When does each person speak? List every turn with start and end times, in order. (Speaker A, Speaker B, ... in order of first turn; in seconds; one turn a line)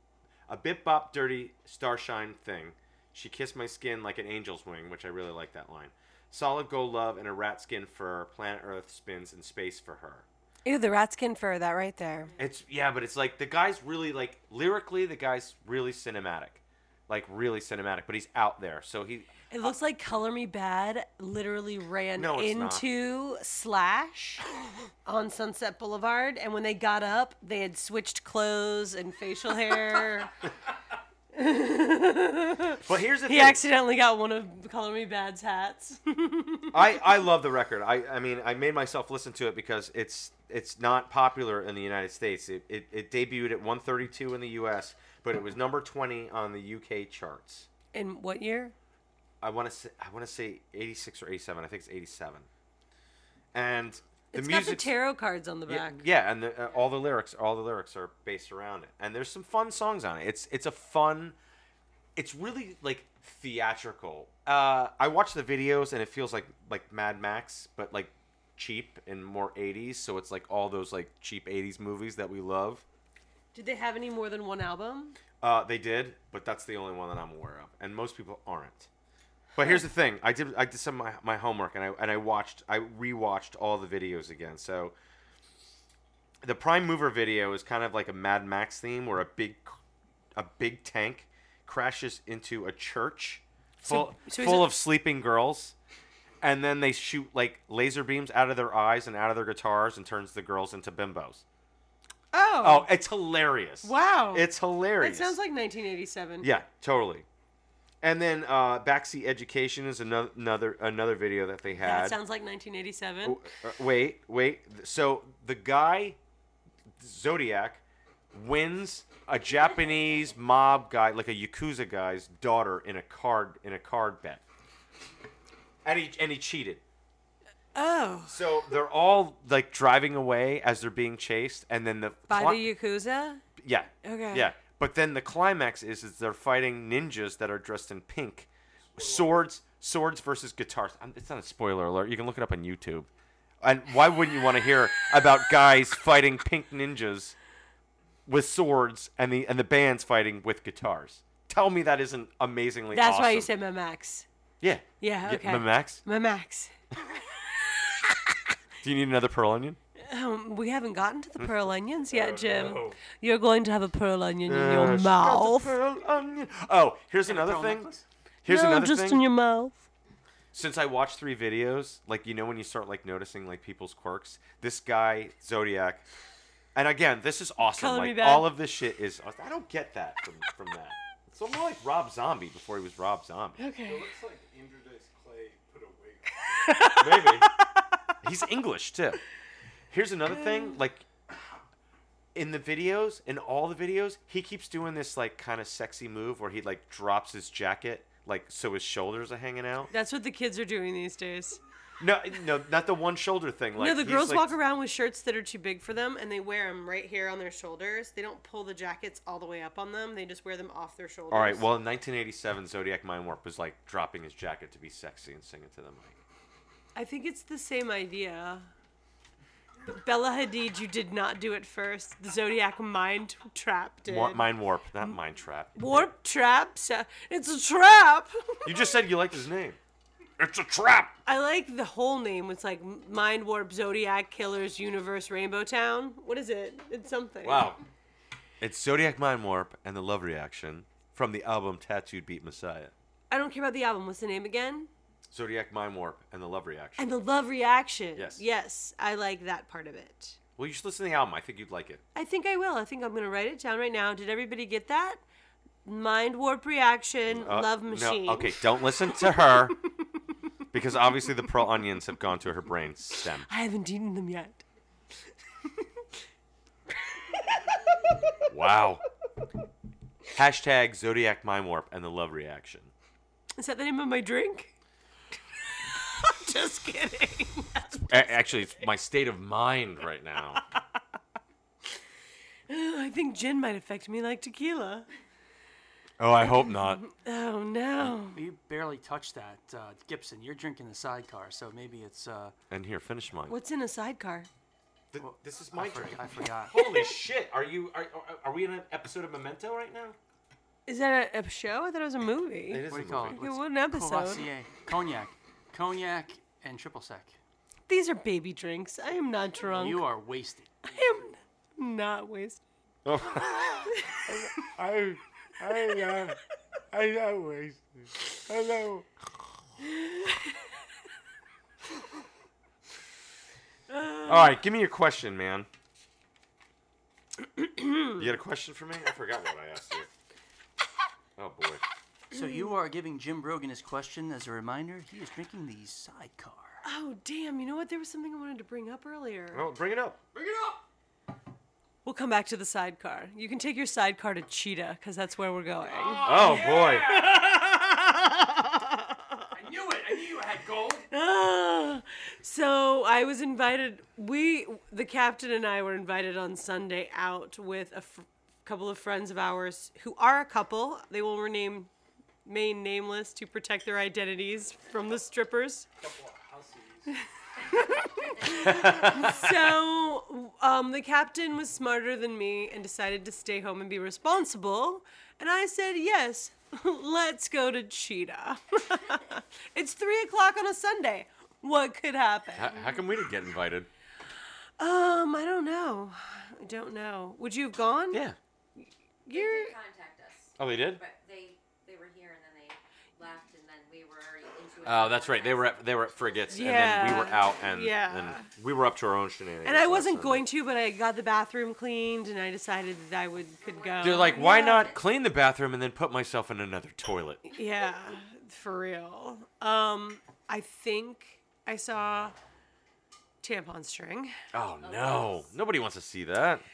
Speaker A: 0.5-10.2
Speaker B: 10.6-12.3
Speaker A: 12.4-19.7
Speaker B: 19.5-24.4
Speaker A: 22.1-22.9
Speaker B: 25.1-30.3
Speaker B: 31.3-36.8
Speaker A: 32.8-33.6
Speaker A: 36.7-47.7
Speaker B: 47.9-48.7
Speaker A: 49.4-52.5
Speaker A: 53.5-54.9
Speaker B: 54.3-56.0
Speaker A: 55.7-61.4
Speaker A: 62.1-72.8
Speaker B: 73.5-75.2
Speaker A: 75.4-78.9
Speaker A: 79.5-84.9
Speaker A: 86.4-89.8
Speaker A: 90.3-95.7
Speaker B: 93.8-94.7
Speaker A: 96.4-101.4
Speaker B: 102.3-102.9
Speaker A: 102.6-105.4
Speaker B: 103.8-104.5
Speaker B: 105.0-106.5
Speaker A: 106.4-107.2
Speaker A: 108.0-112.2
Speaker B: 111.8-113.4
Speaker A: 113.2-116.2
Speaker A: 117.0-117.8
Speaker A: 118.3-124.4
Speaker A: 125.8-126.8
Speaker B: 127.7-128.4
Speaker A: 128.3-132.7
Speaker B: 132.3-133.4
Speaker A: 133.6-143.1
Speaker B: 134.0-134.5
Speaker C: 138.8-139.5
Speaker A: 143.6-147.3
Speaker A: 148.2-153.5
Speaker B: 152.9-154.3
Speaker A: 154.6-156.0
Speaker B: 155.0-156.7
Speaker A: 158.8-159.8
Speaker B: 160.0-165.8
Speaker A: 161.4-163.0
Speaker A: 164.5-167.9
Speaker D: 167.2-168.0
Speaker A: 168.4-169.2
Speaker B: 168.5-169.8
Speaker A: 170.5-176.0
Speaker A: 176.7-183.6
Speaker B: 177.7-178.5
Speaker B: 183.6-184.1
Speaker C: 183.8-186.4
Speaker B: 186.6-187.5
Speaker A: 187.0-187.5
Speaker A: 188.2-189.2
Speaker A: 189.9-191.1
Speaker A: 192.3-199.9
Speaker B: 199.9-201.6
Speaker A: 202.0-204.5
Speaker B: 203.8-211.7
Speaker A: 211.3-216.2
Speaker B: 216.9-218.7
Speaker B: 219.9-224.5
Speaker A: 224.1-226.1
Speaker B: 225.7-228.8
Speaker A: 228.6-229.8
Speaker A: 230.4-231.1
Speaker B: 231.2-237.8
Speaker A: 237.4-237.8
Speaker A: 238.6-242.9
Speaker B: 243.3-244.9
Speaker A: 245.3-247.1
Speaker B: 247.0-250.4
Speaker A: 248.2-248.4
Speaker A: 250.6-252.0
Speaker B: 252.1-255.2
Speaker B: 255.8-258.6
Speaker A: 257.3-259.8
Speaker B: 259.1-259.6
Speaker A: 260.7-263.5
Speaker B: 263.5-264.6
Speaker B: 266.9-268.4
Speaker A: 268.4-269.0
Speaker A: 270.3-272.9
Speaker B: 273.6-274.7
Speaker B: 275.8-278.3
Speaker A: 278.0-280.6
Speaker B: 282.7-285.1
Speaker A: 286.2-287.0
Speaker B: 286.7-288.4
Speaker D: 288.3-292.5
Speaker A: 292.7-293.5
Speaker B: 293.5-294.5
Speaker A: 295.1-300.1
Speaker D: 295.2-296.8
Speaker B: 300.9-304.4
Speaker A: 302.7-303.4
Speaker D: 302.9-307.4
Speaker B: 307.9-310.1
Speaker D: 309.6-310.7
Speaker B: 310.9-312.6
Speaker A: 313.0-316.4
Speaker B: 313.6-314.3
Speaker B: 315.8-316.2
Speaker A: 316.9-319.1
Speaker B: 319.8-320.6
Speaker B: 323.9-324.5
Speaker A: 324.2-325.7
Speaker B: 327.6-328.1
Speaker A: 328.2-330.1
Speaker A: 331.4-331.8
Speaker D: 332.3-336.8
Speaker B: 332.3-332.7
Speaker B: 336.8-339.6
Speaker A: 339.5-340.2
Speaker C: 340.4-340.7
Speaker B: 342.0-349.5
Speaker C: 345.9-347.5
Speaker A: 346.2-347.1
Speaker C: 349.5-351.1
Speaker D: 350.1-350.5
Speaker B: 351.1-361.9
Speaker B: 362.4-365.9
Speaker C: 366.0-367.2
Speaker B: 367.7-383.0
Speaker E: 368.1-369.4
Speaker A: 368.6-369.6
Speaker A: 382.6-383.9
Speaker B: 384.8-388.2
Speaker B: 388.8-389.7
Speaker E: 389.3-397.0
Speaker A: 390.6-391.0
Speaker A: 394.8-400.4
Speaker B: 396.5-398.5
Speaker B: 399.6-404.9
Speaker E: 403.6-405.0
Speaker A: 404.0-407.4
Speaker B: 407.4-412.3
Speaker B: 413.4-414.3
Speaker A: 414.5-416.6
Speaker E: 414.8-415.5